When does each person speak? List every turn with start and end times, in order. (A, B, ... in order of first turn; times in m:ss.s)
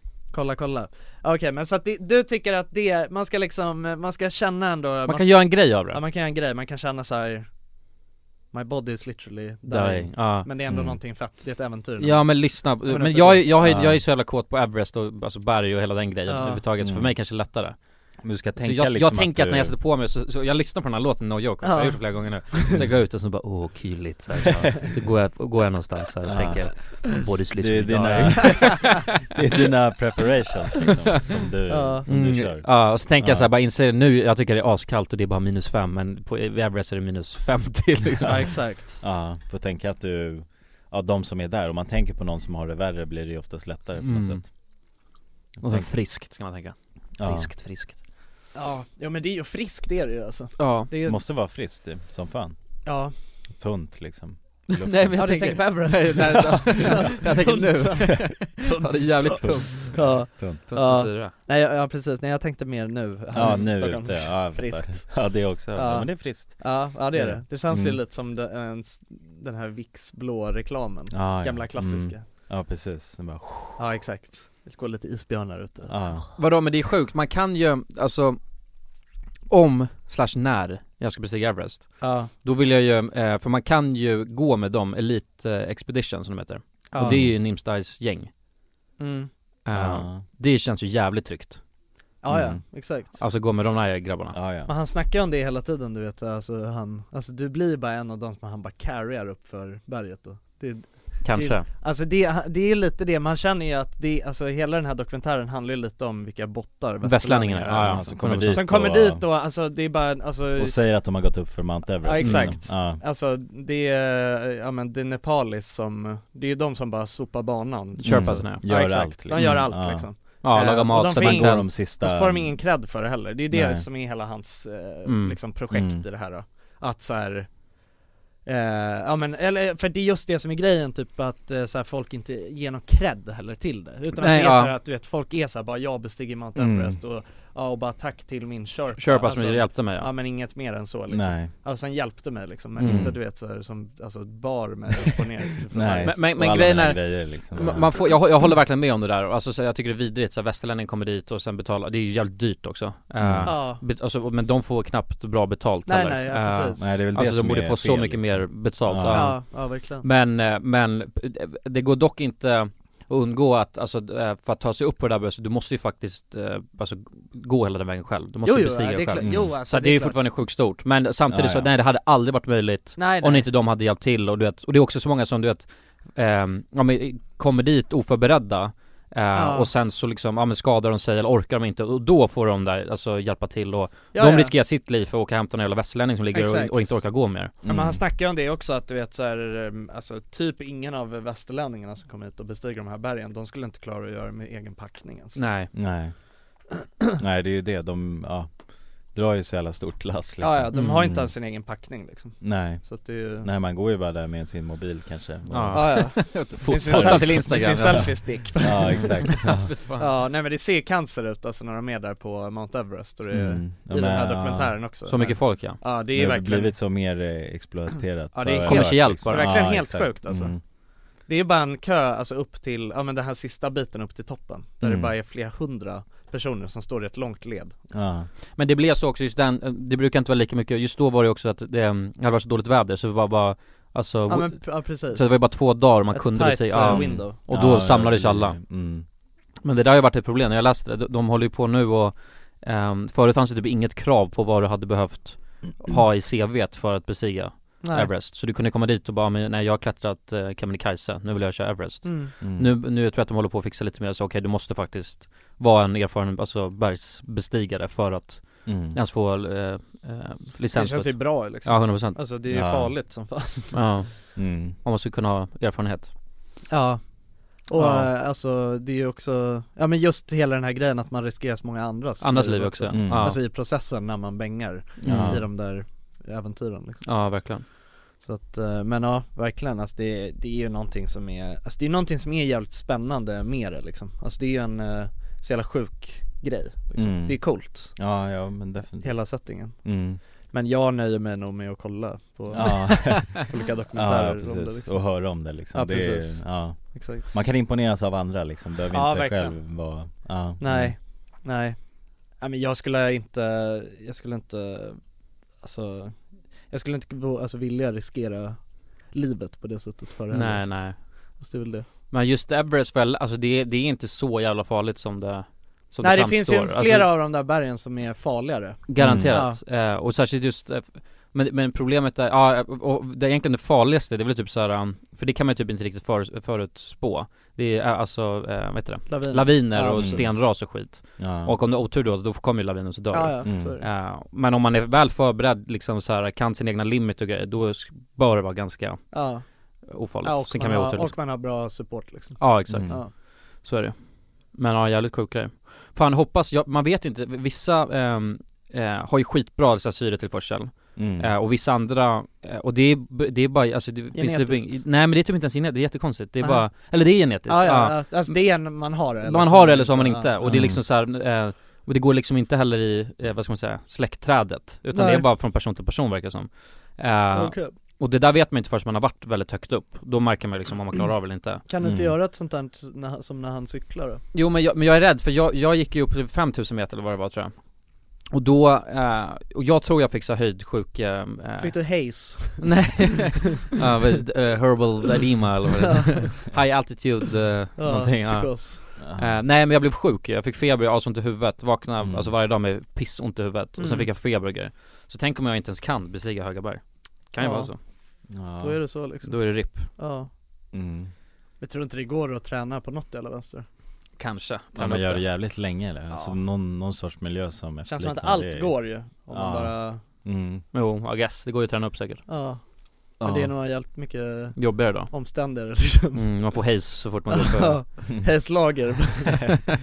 0:00.3-0:07.5 A
0:05.1-0:06.0 B
0:08.5-0:13.5 A
0:09.7-0:10.5 B
0:10.7-0:11.0 C
0:12.0-0:17.8 B
0:13.6-0:14.0 C
0:16.3-0:16.6 A
0:16.8-0:17.2 C
0:18.2-0:19.8 C
0:18.6-0:29.2 B
0:21.6-0:22.8 A
0:24.4-0:24.9 C
0:26.2-0:33.5 C
0:31.7-0:32.1 A
0:32.1-0:38.6 B
0:38.2-0:44.5 C
0:38.2-0:39.0 A
0:44.0-0:44.5 B
0:45.6-0:45.9 C
0:45.6-0:48.0 B
0:47.2-0:47.5 C
0:48.6-0:51.2 A
0:50.6-0:50.9 B
0:51.0-0:52.6 C
0:52.8-0:53.1 A
0:53.6-0:55.3 C
0:54.7-1:01.3 B
0:55.1-1:12.2 A
1:00.3-1:00.6 C
1:03.3-1:08.0 C
1:11.1-1:13.8 C
1:13.8-1:15.9 A
1:15.9-1:16.3 C
1:16.4-1:18.4 B
1:19.5-1:28.3 B
1:22.0-1:22.3 A
1:26.9-1:27.3 A
1:27.0-1:27.3 C
1:29.0-1:29.3 A
1:29.6-1:31.6 B
1:29.7-1:30.3 C
1:32.2-1:33.2 A
1:32.3-1:32.6 C
1:33.1-1:34.4 B
1:34.3-1:34.7 C
1:34.6-1:50.8 A
1:41.2-1:41.6 B
1:47.0-1:48.7 B
1:47.8-1:49.2 C
1:50.6-1:53.0 C
1:52.0-2:07.6 A
1:52.2-1:52.6 B
1:58.0-1:59.7 B
1:58.0-2:00.1 C
2:00.4-2:01.8 B
2:01.0-2:02.6 C
2:03.5-2:03.9 C
2:05.1-2:05.4 B
2:05.7-2:06.1 C
2:08.4-2:26.3 A
2:14.2-2:14.8 B
2:16.6-2:17.0 C
2:19.0-2:20.1 B
2:21.1-2:21.5 C
2:22.8-2:23.1 B
2:22.8-2:23.2 C
2:25.7-2:28.0 C
2:26.0-3:07.5 B
2:33.2-2:33.6 C
2:33.4-2:33.8 A
2:35.9-2:36.9 A
2:36.8-2:39.4 C
2:39.1-2:40.0 A
2:48.4-2:50.2 A
2:49.2-2:49.6 C
2:51.3-2:51.7 C
2:53.0-2:53.5 A
2:59.4-2:59.7 A
3:04.1-3:04.5 A
3:06.3-3:07.1 A
3:07.6-3:08.0 C
3:07.6-3:15.7 A
3:15.4-3:15.7 B
3:15.7-3:16.2 C
3:17.2-3:21.3 C
3:20.4-3:23.5 A
3:20.7-3:21.0 B
3:22.4-3:29.7 C
3:25.5-3:30.1 B
3:25.7-3:29.4 A
3:30.0-3:36.8 A
3:33.3-3:34.9 C
3:35.0-3:35.8 B
3:36.1-3:40.6 C
3:38.3-3:40.6 A
3:38.6-3:39.5 B
3:41.3-3:47.8 A
3:44.8-3:45.2 C
3:47.9-3:48.3 C
3:48.6-3:58.6 B
3:54.3-3:57.4 A
3:56.9-3:59.1 C
3:59.6-4:22.3 B
4:07.8-4:08.1 A
4:12.0-4:12.3 A
4:12.4-4:12.8 C
4:18.6-4:19.0 C
4:20.7-4:23.9 A
4:22.5-4:23.0 C
4:23.7-4:26.1 B
4:24.4-4:24.8 C
4:26.7-4:37.3 A
4:27.8-4:28.1 B
4:32.2-4:33.4 B
4:32.9-4:33.4 C
4:35.0-4:35.4 B
4:35.0-4:35.5 C
4:37.0-4:37.6 B
4:38.2-4:48.0 A
4:47.0-4:50.2 C
4:49.0-4:57.3 A
4:52.5-5:01.0 C
4:58.9-4:59.6 A
5:00.6-5:01.9 A
5:02.4-5:05.0 A
5:05.6-5:11.9 A
5:10.3-5:11.5 B
5:12.1-5:17.1 B
5:16.0-5:19.6 A
5:18.9-5:41.2 B
5:19.0-5:19.4 C
5:29.1-5:30.4 A
5:29.9-5:31.6 C
5:33.1-5:33.9 A
5:33.4-5:33.8 C
5:39.1-5:39.4 A
5:40.2-5:43.1 A
5:42.4-6:11.6 B
5:42.7-5:43.0 C
5:50.9-5:51.3 C
5:54.1-5:54.8 A
5:56.4-5:56.9 A
5:57.4-6:00.5 A
6:00.4-6:00.8 C
6:04.9-6:05.3 A
6:07.3-6:07.7 A
6:11.7-6:14.2 A
6:11.8-6:12.2 C
6:14.3-6:17.6 B
6:18.3-6:37.8 B
6:21.6-6:23.0 A
6:25.9-6:26.3 A
6:27.8-6:28.9 A
6:29.0-6:29.5 C
6:32.0-6:32.4 C
6:33.8-6:34.1 A
6:37.4-6:37.9 A
6:38.3-6:39.0 C
6:38.6-6:40.3 A
6:39.2-6:39.9 B
6:40.7-6:41.1 C
6:41.6-6:43.6 A
6:44.2-6:45.3 B
6:44.8-6:50.6 C
6:46.1-6:46.4 A
6:47.8-6:50.0 A
6:50.7-6:52.2 B
6:52.3-6:56.3 A
6:53.2-6:53.6 C
6:54.6-6:55.1 B
6:56.1-6:57.8 B
6:57.3-6:59.6 A